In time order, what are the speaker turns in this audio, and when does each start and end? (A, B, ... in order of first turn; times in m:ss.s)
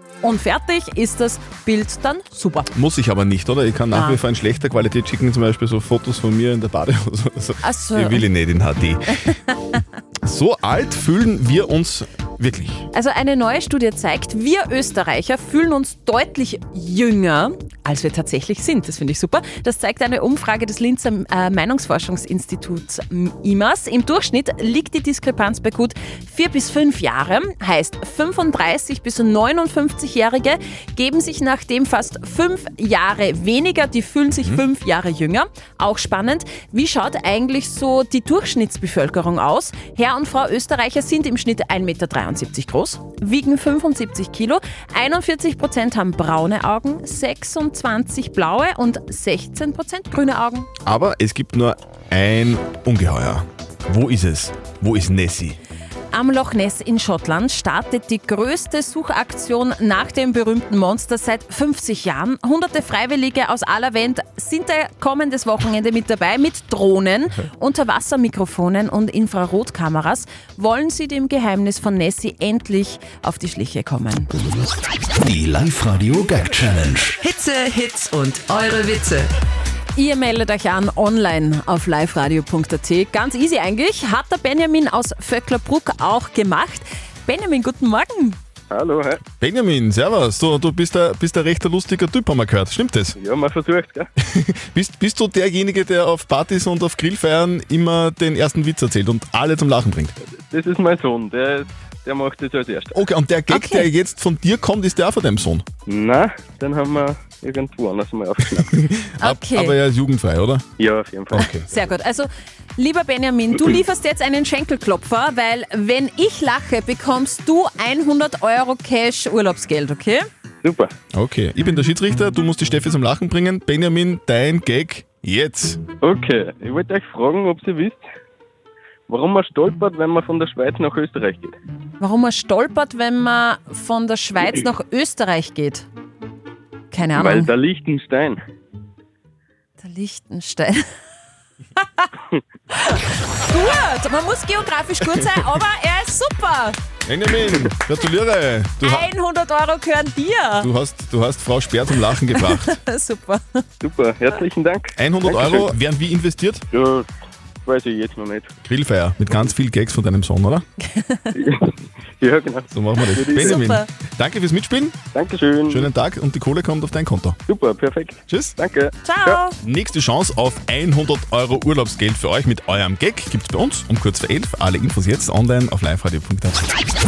0:00.2-0:02.7 A
0:02.7-0:09.3 B
0:03.9-0:04.2 A
0:07.6-0:08.3 A
0:10.2-0:12.8 B
0:12.9-0:50.7 A
0:34.4-0:34.6 B
0:50.8-0:55.6 B
0:56.1-1:14.3 A
1:15.2-1:17.2 C
1:17.2-1:19.3 D
1:20.0-1:28.4 A
1:28.7-1:29.2 E
1:29.4-1:33.2 B
1:33.2-1:34.1 E
1:34.2-1:40.1 B
1:40.2-1:43.1 E
1:42.9-1:45.6 B
1:43.5-1:43.9 A
1:45.9-1:48.8 E
1:48.7-1:50.6 B
1:49.2-1:49.8 A
1:50.8-1:51.5 E
1:51.3-1:51.7 B
1:51.7-2:00.2 A
2:00.6-2:00.9 E
2:01.1-2:05.8 B
2:06.0-2:08.0 E
2:09.1-2:11.5 E
2:12.0-2:15.9 A
2:16.9-2:17.5 A
2:17.1-2:18.4 E
2:19.8-2:20.8 A
2:21.8-2:22.1 A
2:22.8-2:26.8 A
2:27.0-2:29.1 B
2:28.8-2:30.7 A
2:30.6-2:32.8 B
2:32.3-2:33.6 A
2:33.8-2:35.7 E
2:35.0-2:36.6 B
2:36.7-2:37.1 E
2:37.6-2:38.5 E
2:38.6-2:40.6 B
2:40.9-2:41.2 A
2:41.3-2:43.7 E
2:42.7-2:45.0 B
2:43.3-2:43.9 A
2:45.1-2:45.9 E
2:45.7-2:47.4 B
2:47.5-2:49.4 E
2:48.3-2:48.6 B
2:49.0-2:49.6 A
2:49.6-2:56.6 B